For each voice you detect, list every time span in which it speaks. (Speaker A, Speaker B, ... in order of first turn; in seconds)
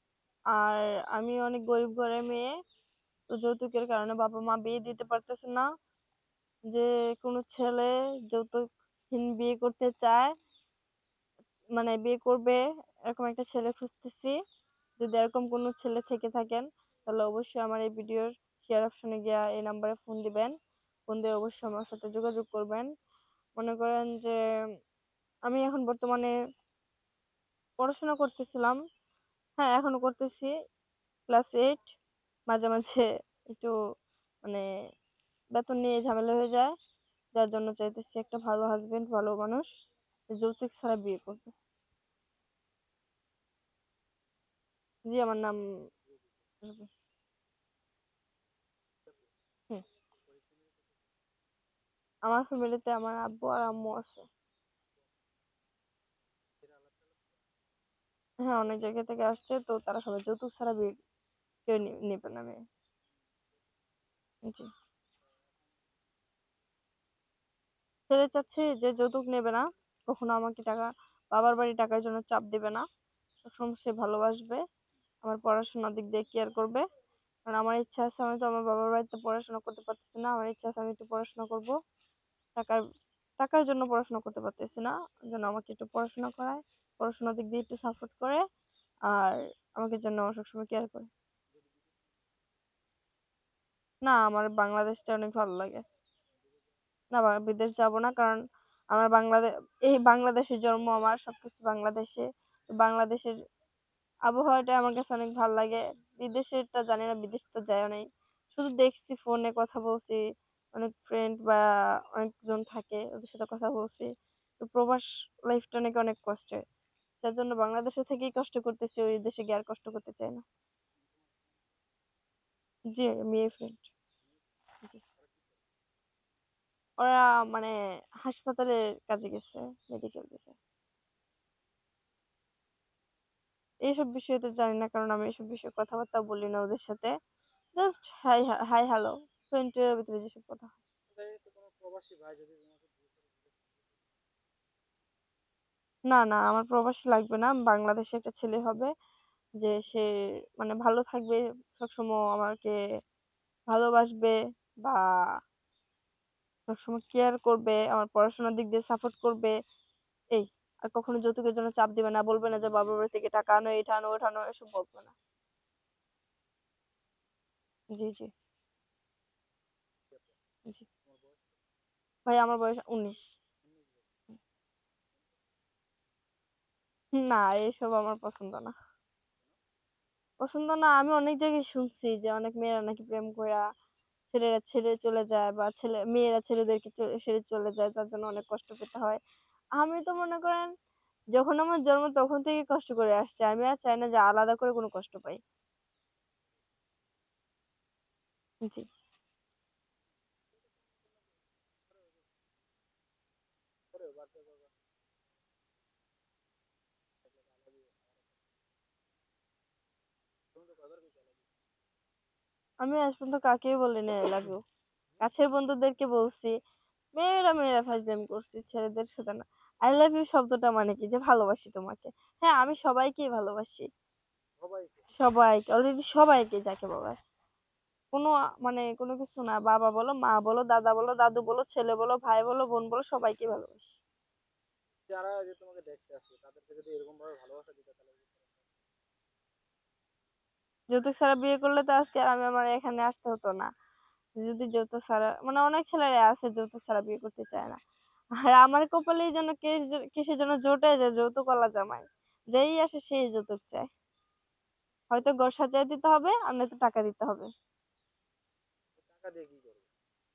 Speaker A: 0.6-2.5, 3.3-5.6, 6.7-10.3, 11.8-14.3, 15.0-20.5, 21.1-22.9, 23.6-24.3, 25.5-26.3, 27.8-28.8, 29.6-30.5, 31.3-32.0, 32.5-33.7, 35.5-36.7, 37.4-39.7, 40.3-41.5, 45.1-45.5, 52.2-54.2, 58.5-60.9, 61.7-62.6, 68.1-72.8, 73.4-74.6, 75.2-76.8, 77.5-81.7, 83.4-88.4, 89.1-91.1, 94.0-95.8, 97.1-98.4, 98.9-102.2, 102.8-103.3, 104.3-110.2, 110.7-111.6, 112.1-114.1, 114.6-116.6, 117.2-120.4, 122.9-123.9, 127.0-127.7, 128.2-130.6, 133.9-137.1, 137.8-140.7, 146.1-148.9, 149.6-150.1, 150.6-152.7, 153.7-155.0, 156.7-159.5, 160.3-165.1, 167.9-168.3, 172.3-173.2, 177.2-178.7, 180.4-183.6, 184.3-189.2, 189.8-190.7, 191.3-195.4, 212.8-214.6, 215.2-216.5, 217.2-223.9, 225.2-227.2, 228.1-233.9, 240.9-243.7, 244.4-247.8, 248.4-253.9, 255.1-257.5
Speaker B: 46.0-46.5, 49.0-49.3, 50.2-51.0, 56.6-57.5, 63.1-63.7, 65.2-65.9, 91.5-92.2, 96.4-96.7, 120.9-121.8, 125.0-125.6, 141.1-144.1, 170.1-170.4, 171.0-171.6, 173.6-174.1, 200.5-202.4, 203.9-204.7, 207.2-208.5, 210.5-211.6, 224.6-225.1, 235.1-238.7, 258.9-259.9